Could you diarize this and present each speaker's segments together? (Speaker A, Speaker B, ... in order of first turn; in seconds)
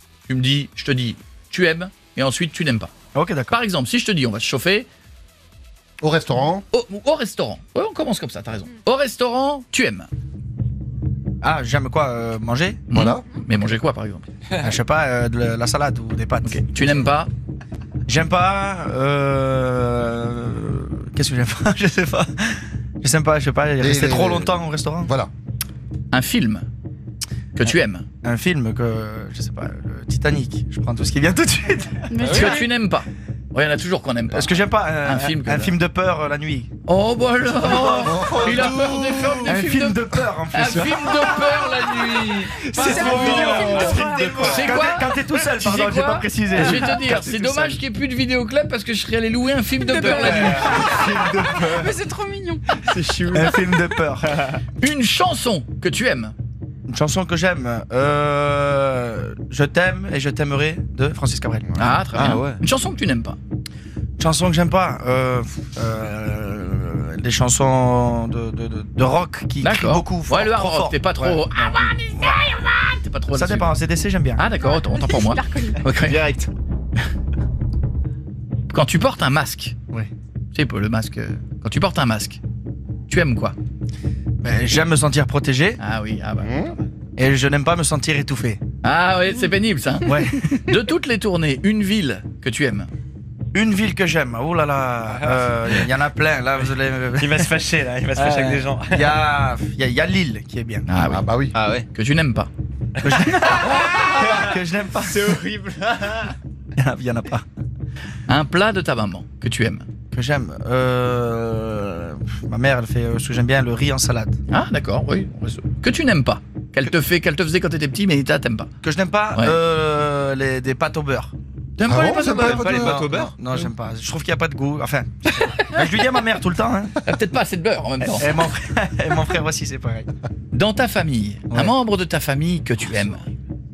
Speaker A: 0.3-2.9, 3.5-4.9, 6.7-10.1, 12.9-14.3, 16.4-17.3, 26.1-26.7, 27.6-28.1, 32.2-35.8, 36.9-51.2, 54.8-56.3, 61.8-63.4, 69.6-73.8, 74.4-76.2, 78.7-79.8, 80.5-82.4, 83.1-83.5, 85.8-86.8, 88.8-92.9, 100.9-102.5, 108.3-109.9, 114.5-118.7, 121.8-123.0, 127.0-128.3, 130.5-133.3
Speaker B: 3.1-3.6, 11.4-13.1, 14.6-17.1, 18.1-25.1, 27.6-32.6, 34.3-36.7, 37.5-41.4, 42.6-47.8, 50.0-52.0, 52.9-54.3, 56.9-62.0, 64.2-71.7, 73.3-74.4, 75.9-76.5, 84.4-85.8, 87.2-88.6, 90.0-90.8, 93.5-97.5, 98.2-100.9, 103.0-105.3, 106.8-107.4, 110.1-114.4, 118.8-121.3, 122.5-127.0, 128.0-130.1
Speaker C: 6.0-6.7, 12.9-13.2, 23.8-24.5, 25.1-25.3, 38.0-39.3, 101.0-101.5, 121.8-123.1
Speaker D: 32.1-32.6, 43.7-44.0, 51.8-52.6, 74.6-75.7
Speaker E: 38.4-39.5, 42.9-44.7, 50.1-50.6, 53.1-53.4, 62.1-62.6, 95.1-95.9, 97.2-99.2, 101.5-101.9, 103.0-104.4, 105.1-106.3, 122.4-123.3